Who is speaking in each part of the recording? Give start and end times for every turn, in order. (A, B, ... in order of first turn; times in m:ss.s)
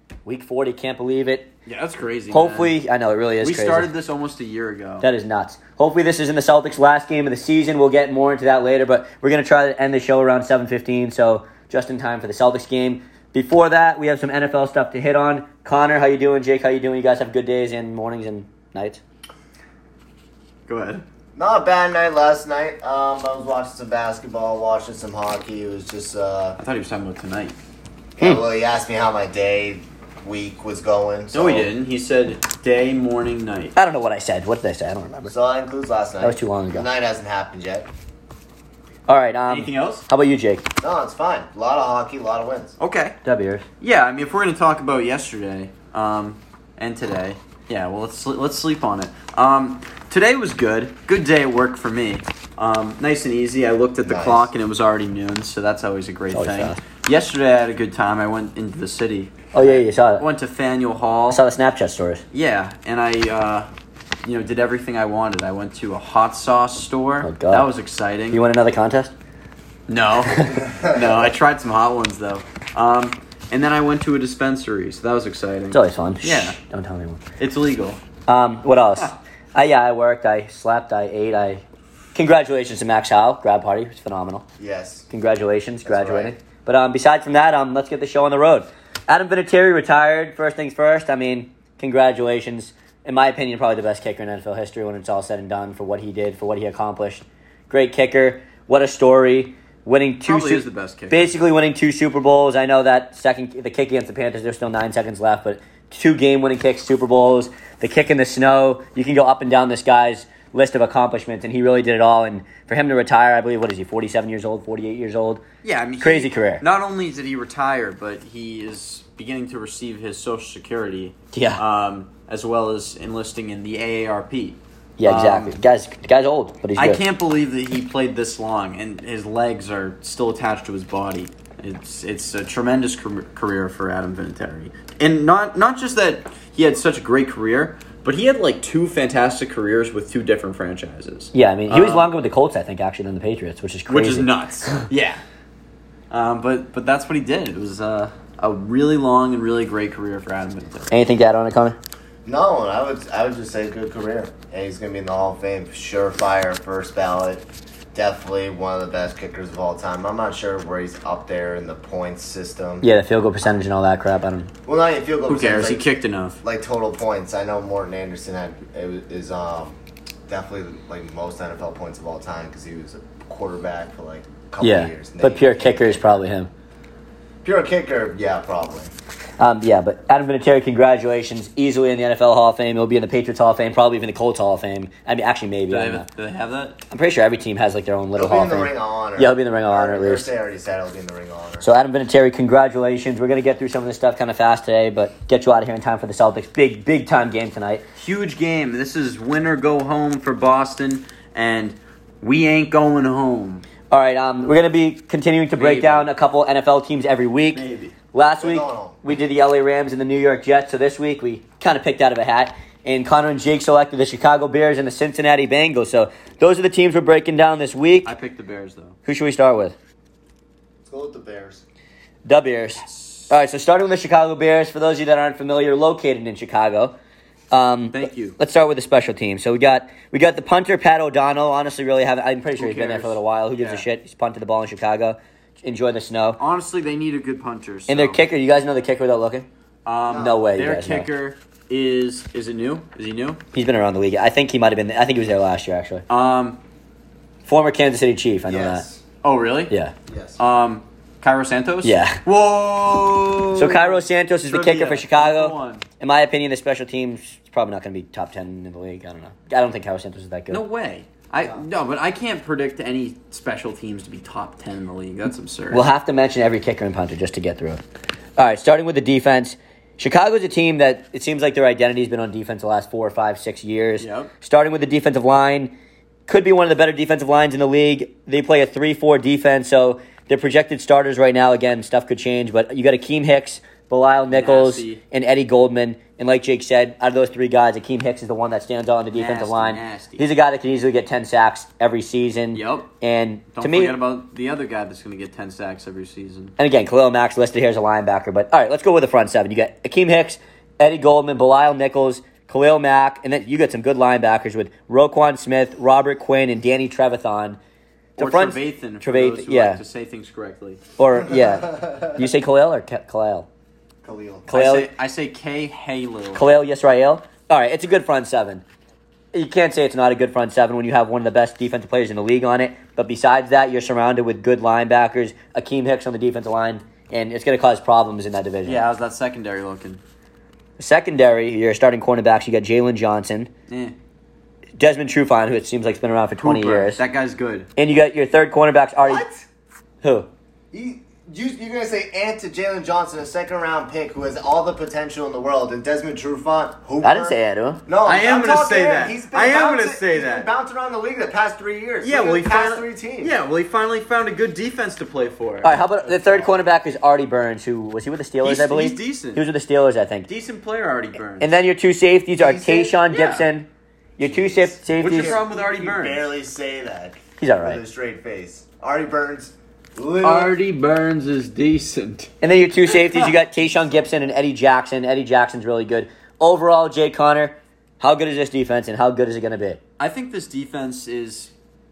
0:00.2-0:01.5 A
0:01.7-0:02.7 B
0:02.3-0:03.9 A
0:03.4-0:05.1 B
0:05.0-0:19.0 A
0:20.7-0:21.0 B
0:21.4-0:26.6 C
0:26.6-0:27.6 B
0:28.2-0:31.7 C
0:31.3-0:33.7 B
0:33.8-0:35.3 A
0:35.3-0:37.9 C
0:36.2-0:36.9 A
0:39.1-0:40.6 A
0:39.5-0:40.1 B
0:40.8-0:42.8 C
0:42.8-0:43.2 B
0:43.2-0:43.7 A
0:43.8-1:01.4 B
0:54.0-0:54.5 C
0:56.3-0:56.8 A
0:59.5-1:00.2 A
1:01.3-1:02.2 A
1:02.3-1:03.7 B
1:04.2-1:08.4 B
1:07.2-1:07.7 A
1:08.3-1:09.1 A
1:09.9-1:16.6 B
1:10.3-1:10.6 A
1:10.7-1:11.3 C
1:15.7-1:17.2 A
1:17.4-1:18.0 B
1:18.3-1:21.6 A
1:22.2-1:24.5 A
1:24.6-1:25.1 C
1:25.1-1:55.4 A
1:25.8-1:26.3 C
1:40.3-1:41.3 B
1:55.6-2:05.5 B
1:56.0-1:56.6 A
2:01.3-2:01.6 A
2:05.0-2:07.0 A
2:06.8-2:22.1 B
2:21.3-2:24.9 A
2:23.9-2:25.2 B
2:26.1-2:30.9 B
2:30.9-2:31.8 A
2:32.2-2:42.8 C
2:42.8-2:44.5 A
2:44.7-2:45.9 C
2:45.3-2:46.4 B
2:46.4-2:49.8 C
2:50.3-2:56.0 C
2:54.6-2:56.5 A
2:57.4-2:58.9 C
2:59.4-3:06.1 A
3:05.7-3:06.8 B
3:06.9-3:10.3 A
3:08.2-3:11.7 C
3:11.6-3:17.8 A
3:18.0-3:23.6 B
3:23.9-3:38.1 A
3:25.6-3:26.1 B
3:27.5-3:28.0 B
3:28.4-3:29.0 C
3:38.0-3:39.0 B
3:39.1-3:39.8 A
3:40.8-3:41.6 C
3:42.2-3:47.0 A
3:47.5-3:56.4 A
3:47.9-3:48.4 B
3:52.6-3:53.9 B
3:56.4-3:58.2 B
3:57.9-3:59.5 A
3:59.8-4:03.4 B
4:00.1-4:00.4 C
4:00.1-4:01.1 A
4:03.5-4:06.0 A
4:06.1-4:06.6 B
4:07.4-4:08.8 A
4:08.5-4:09.0 C
4:09.2-4:09.7 B
4:10.1-4:10.4 C
4:10.4-4:15.8 B
4:11.8-4:12.2 A
4:13.6-4:20.6 A
4:20.5-4:25.9 B
4:25.7-4:27.8 A
4:28.4-4:35.7 A
4:34.0-4:34.3 B
4:36.3-4:54.0 A
4:44.3-4:45.0 B
4:49.1-4:50.2 B
4:52.6-4:52.9 B
4:53.6-4:56.6 B
4:56.6-5:07.6 A
5:08.2-5:10.8 B
5:08.2-5:09.8 A
5:11.0-5:13.5 A
5:11.4-5:12.1 C
5:14.0-5:14.5 C
5:14.5-5:14.9 A
5:14.5-5:16.5 B
5:16.4-5:18.6 A
5:19.3-5:28.8 A
5:28.6-5:30.0 B
5:30.8-5:33.5 A
5:33.7-5:34.0 B
5:34.8-5:37.0 A
5:36.4-5:37.7 B
5:37.8-5:39.2 A
5:39.0-5:39.5 C
5:40.0-5:40.3 A
5:40.7-5:53.4 C
5:47.0-5:47.8 A
5:48.0-5:50.5 B
5:52.0-5:55.8 B
5:55.6-6:00.3 A
5:56.0-5:56.6 C
5:58.4-5:59.4 B
6:00.3-6:01.5 B
6:01.4-6:03.7 A
6:02.4-6:03.0 C
6:03.1-6:03.5 B
6:04.2-6:05.4 A
6:04.2-6:10.6 C
6:05.0-6:06.3 B
6:07.4-6:07.8 A
6:10.2-6:12.3 B
6:12.4-6:19.8 A
6:12.9-6:13.3 B
6:20.0-6:21.5 B